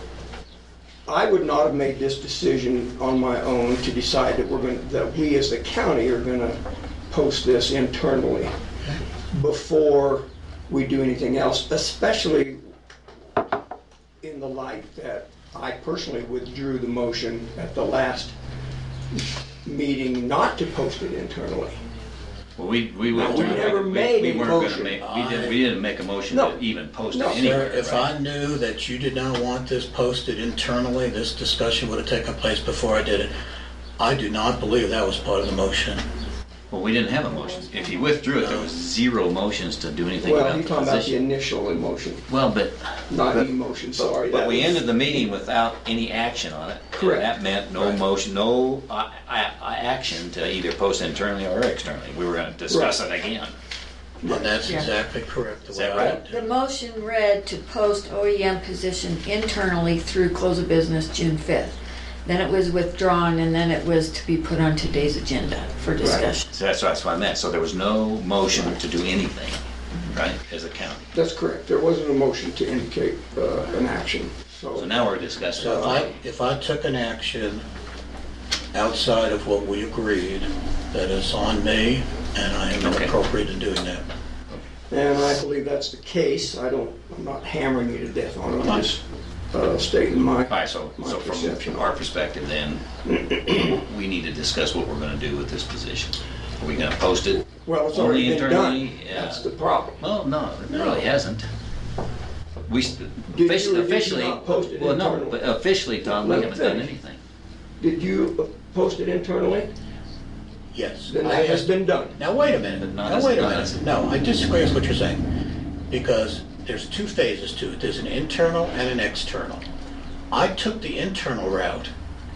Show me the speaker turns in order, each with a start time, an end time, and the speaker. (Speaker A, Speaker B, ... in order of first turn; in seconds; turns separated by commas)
Speaker A: 1.1-8.5, Speaker A: 9.3-12.6, Speaker A: 14.2-18.3, Speaker A: 19.6-21.8, Speaker B: 22.6-28.1, Speaker A: 23.1-25.0, Speaker C: 23.2-23.7, Speaker C: 25.0-25.6, Speaker A: 26.3-26.6, Speaker A: 27.1-27.5, Speaker C: 27.2-33.3, Speaker C: 34.0-36.0, Speaker B: 36.7-41.1, Speaker C: 38.4-38.7, Speaker A: 40.2-42.2, Speaker B: 42.3-43.4, Speaker A: 43.1-44.9, Speaker B: 44.0-53.5, Speaker A: 46.9-48.0, Speaker A: 52.7-53.0, Speaker A: 54.2-54.8, Speaker C: 54.2-56.4, Speaker D: 54.6-54.9, Speaker B: 55.7-56.1, Speaker D: 55.9-66.4, Speaker A: 66.0-66.3, Speaker B: 66.5-71.1, Speaker A: 71.1-75.0, Speaker B: 74.7-76.2, Speaker C: 75.5-77.6, Speaker A: 75.6-76.0, Speaker C: 78.7-84.1, Speaker B: 82.8-83.1, Speaker A: 84.9-91.9, Speaker B: 90.5-92.8, Speaker A: 93.0-93.8, Speaker B: 93.7-99.4, Speaker A: 97.6-100.0, Speaker B: 100.0-101.5, Speaker C: 100.7-101.1, Speaker B: 102.7-107.2, Speaker A: 103.3-105.5, Speaker A: 106.0-106.9, Speaker A: 107.8-109.7, Speaker C: 110.7-115.2, Speaker A: 111.1-112.2, Speaker B: 112.4-113.9, Speaker C: 115.9-119.6, Speaker C: 120.3-121.9